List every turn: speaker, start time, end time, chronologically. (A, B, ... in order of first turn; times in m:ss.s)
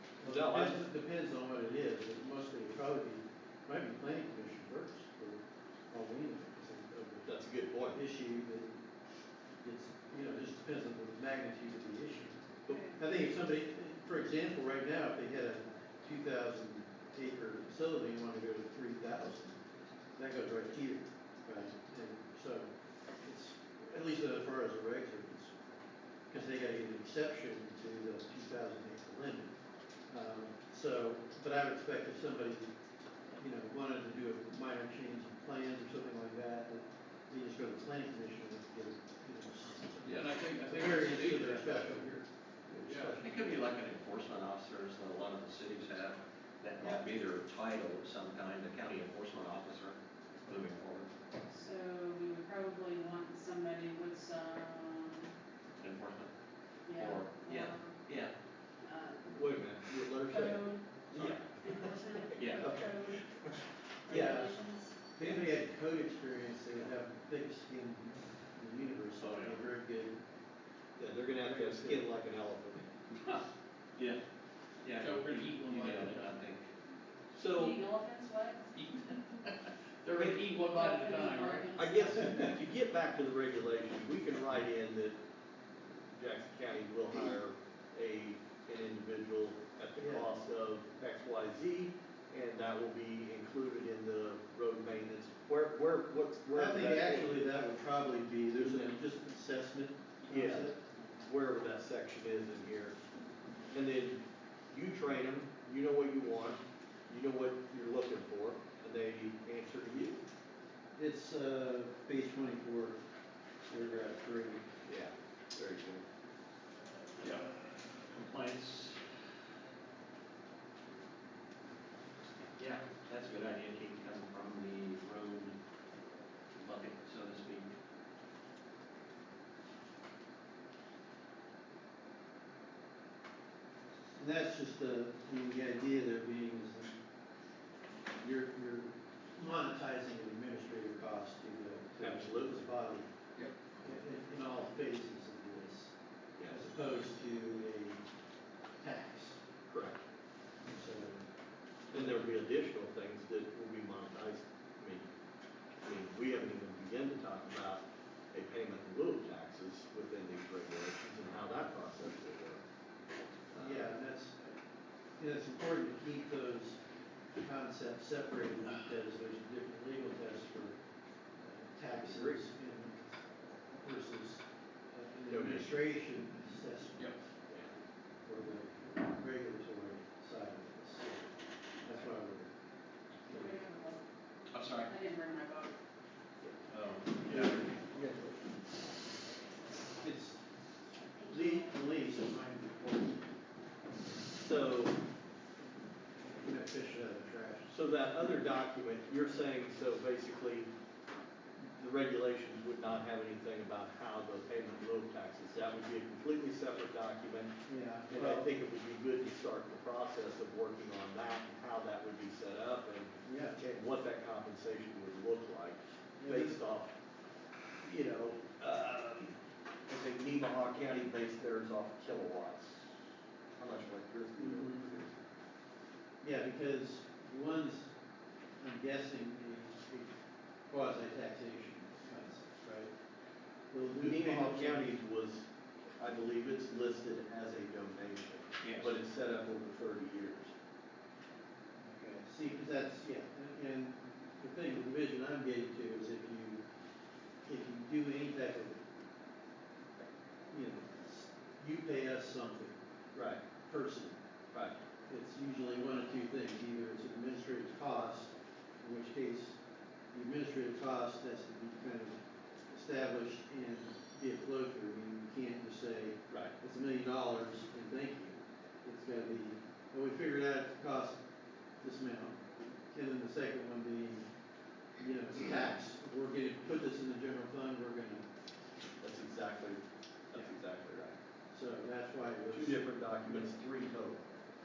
0:00.2-0:07.3 A
0:00.2-0:00.8 B
0:07.2-0:08.0 B
0:07.9-0:08.8 A
0:09.6-0:19.6 A
0:12.7-0:13.0 C
0:20.2-0:22.7 A
0:23.2-0:25.5 A
0:26.3-0:29.5 A
0:30.1-0:32.7 A
0:33.3-0:43.5 A
0:40.0-0:42.2 D
0:42.7-0:43.2 B
0:42.8-0:43.2 D
0:43.2-0:51.1 E
0:51.5-0:55.3 C
0:55.8-0:56.3 E
0:56.9-0:58.0 C
0:56.9-0:58.3 E
0:58.8-0:59.5 C
0:59.3-1:03.2 B
1:00.3-1:03.3 C
1:01.1-1:01.4 E
1:02.4-1:02.7 E
1:04.0-1:05.0 C
1:04.1-1:04.6 A
1:05.1-1:10.2 A
1:05.2-1:05.6 E
1:09.2-1:09.7 E
1:11.0-1:12.9 B
1:11.5-1:12.1 A
1:14.0-1:14.2 E
1:14.8-1:16.7 E
1:15.0-1:16.3 D
1:17.3-1:17.8 B
1:17.5-1:18.7 C
1:18.7-1:19.4 D
1:20.0-1:21.7 D
1:20.2-1:22.6 C
1:21.8-1:25.2 B
1:26.1-1:37.4 B
1:30.0-1:30.3 A
1:36.5-1:40.8 A
1:38.6-1:39.0 B
1:40.3-1:40.7 B
1:41.2-1:43.0 B
1:43.7-1:50.2 B
1:51.0-1:53.0 A
1:53.7-1:54.6 A
1:54.9-1:56.0 B
1:57.2-1:59.0 E
2:02.6-2:05.6 E
2:06.6-2:07.7 E
2:14.2-2:16.9 A
2:18.2-2:23.1 A
2:22.0-2:22.7 B
2:23.8-2:25.9 A
2:26.5-2:28.0 A
2:28.8-2:29.4 A
2:29.7-2:30.0 B
2:30.7-2:31.3 A
2:31.9-2:32.3 A
2:31.9-2:35.1 B
2:35.8-2:42.6 B
2:43.5-2:43.9 B
2:43.5-2:44.6 A
2:45.2-2:46.8 A
2:47.4-2:50.8 A
2:51.4-2:57.2 A
2:52.0-2:52.4 B
2:55.3-2:55.7 B
2:57.5-2:57.7 B
2:58.2-3:02.5 A
3:03.3-3:03.6 A
3:03.3-3:04.0 C
3:04.5-3:04.9 E
3:04.7-3:05.8 C
3:06.7-3:07.7 E
3:07.3-3:08.0 A
3:07.3-3:08.4 B
3:10.0-3:10.4 A
3:11.0-3:11.8 C
3:11.3-3:13.2 A
3:14.4-3:15.0 B
3:16.4-3:17.7 A
3:17.7-3:20.7 B
3:21.6-3:27.5 B
3:27.7-3:28.5 A
3:28.1-3:36.9 B
3:33.3-3:33.6 A
3:36.2-3:36.6 A
3:37.8-3:43.0 B
3:43.6-3:45.2 B
3:44.4-3:44.9 A
3:46.2-3:47.9 A
3:48.6-3:50.1 A
3:50.7-3:52.9 A
3:53.7-3:55.0 A
3:53.9-3:55.5 B
3:56.0-4:00.5 B
3:58.6-3:58.9 E
4:01.8-4:06.6 A
4:07.4-4:08.8 A
4:10.5-4:12.8 A
4:13.1-4:13.4 B
4:13.6-4:14.2 A
4:15.1-4:19.6 A
4:20.1-4:22.2 A
4:22.7-4:31.2 A
4:31.8-4:34.3 A
4:35.0-4:38.3 A
4:39.0-4:41.2 B
4:41.5-4:43.4 A
4:42.5-4:44.3 B